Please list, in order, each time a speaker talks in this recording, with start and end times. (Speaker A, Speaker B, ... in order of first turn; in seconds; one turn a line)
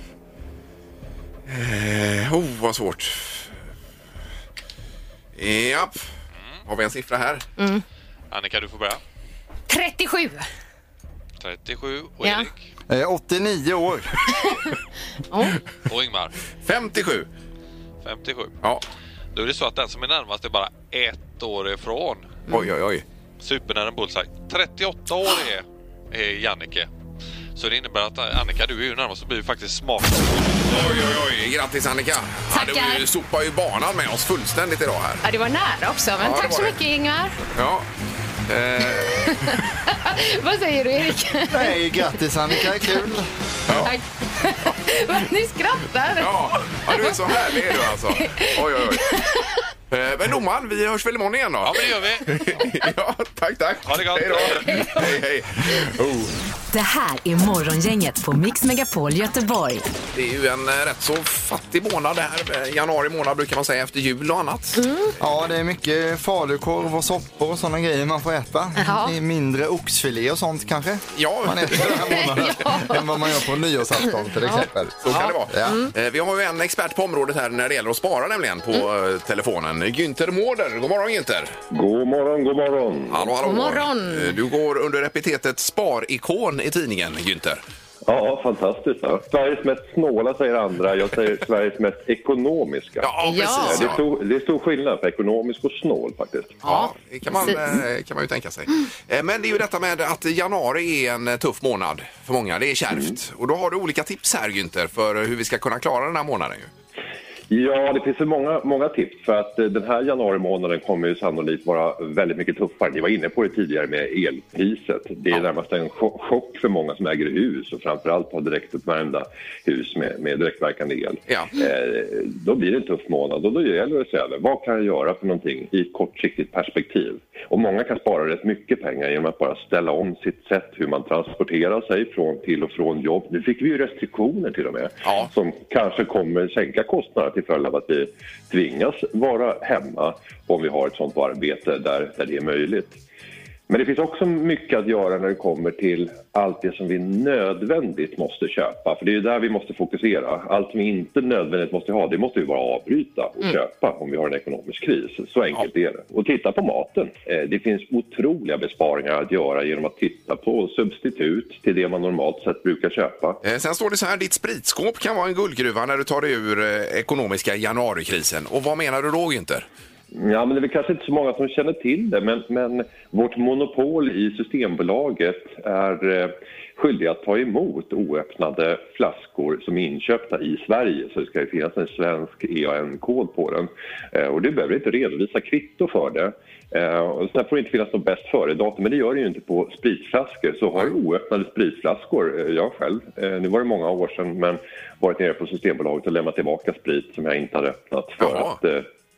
Speaker A: 1.5-3.5
Speaker A: 5.3-6.1
Speaker B: 6.4-6.6
Speaker A: 6.7-7.4
Speaker C: 7.6-7.8
Speaker B: 8.3-9.0
Speaker C: 9.7-10.5
Speaker B: 11.4-12.6
Speaker C: 12.2-12.5
Speaker D: 12.9-14.3
Speaker C: 15.3-15.5
Speaker B: 15.8-16.4
Speaker A: 16.6-17.3
Speaker B: 18.0-18.5
Speaker B: 19.3-22.4
Speaker A: 22.5-23.0
Speaker B: 23.4-26.9
Speaker B: 27.6-30.7
Speaker A: 30.7-35.2
Speaker C: 32.5-33.0
Speaker C: 35.2-37.4
Speaker A: 36.2-36.8
Speaker A: 37.5-37.9
Speaker A: 38.5-39.6
Speaker C: 39.1-41.9
Speaker D: 41.5-43.7
Speaker C: 42.6-42.9
Speaker A: 43.7-43.9
Speaker C: 43.8-49.6
Speaker A: 46.2-49.1
Speaker A: 49.9-56.3
Speaker B: 51.6-52.6
Speaker B: 53.9-54.8
Speaker C: 54.6-55.0
Speaker E: 56.7-59.9
Speaker A: 60.1-64.8
Speaker C: 64.8-65.1
Speaker D: 65.2-75.8
Speaker C: 68.8-69.2
Speaker A: 71.1-72.5
Speaker C: 71.9-73.4
Speaker C: 74.0-75.9
Speaker A: 75.0-81.5
Speaker F: 81.7-83.3
Speaker A: 83.1-87.6
Speaker C: 83.4-84.4
Speaker F: 88.0-96.6
Speaker A: 93.0-94.0
Speaker C: 93.2-93.9
Speaker C: 96.6-97.8
Speaker A: 96.6-106.7
Speaker F: 107.5-143.0
Speaker A: 121.3-121.5
Speaker A: 135.0-135.3
Speaker F: 143.7-163.4
Speaker A: 163.4-169.7
Speaker F: 170.1-198.8
Speaker A: 198.2-198.6